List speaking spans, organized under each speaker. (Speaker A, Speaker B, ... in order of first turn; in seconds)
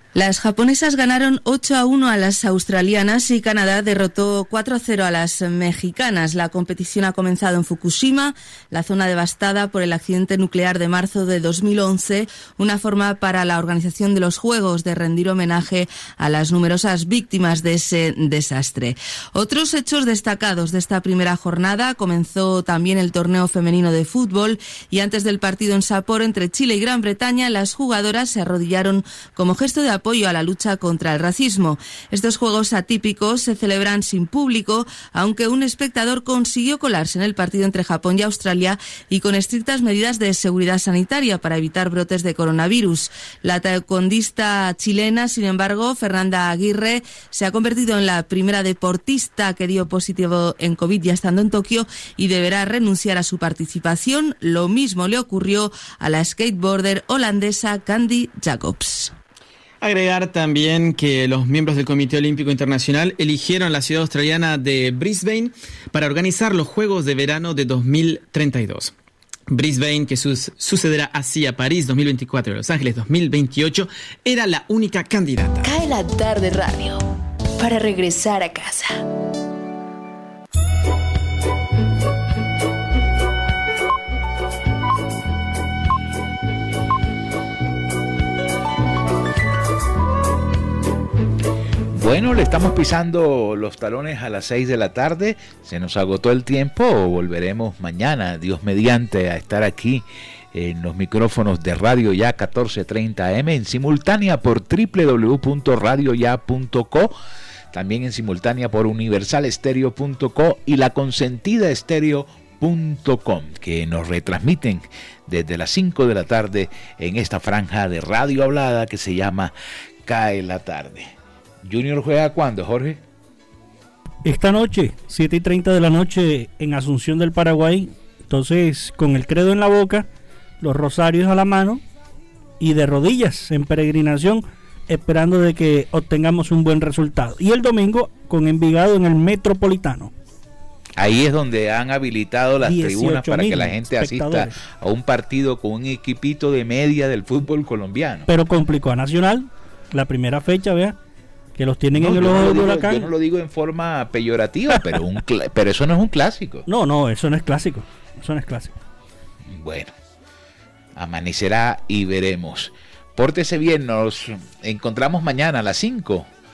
Speaker A: 0.1-59.1
Speaker B: 59.8-68.9, 69.5-75.7
Speaker C: 75.6-77.0, 77.6-79.0
Speaker D: 91.9-107.1, 107.7-119.5, 120.0-121.1, 121.6-123.0, 141.0-148.3, 151.9-156.7, 159.5-159.9, 160.9-166.3
Speaker E: 124.2-130.1, 130.6-131.8, 132.6-140.1, 142.6-144.6, 148.3-150.9, 151.6-153.1, 156.7-158.7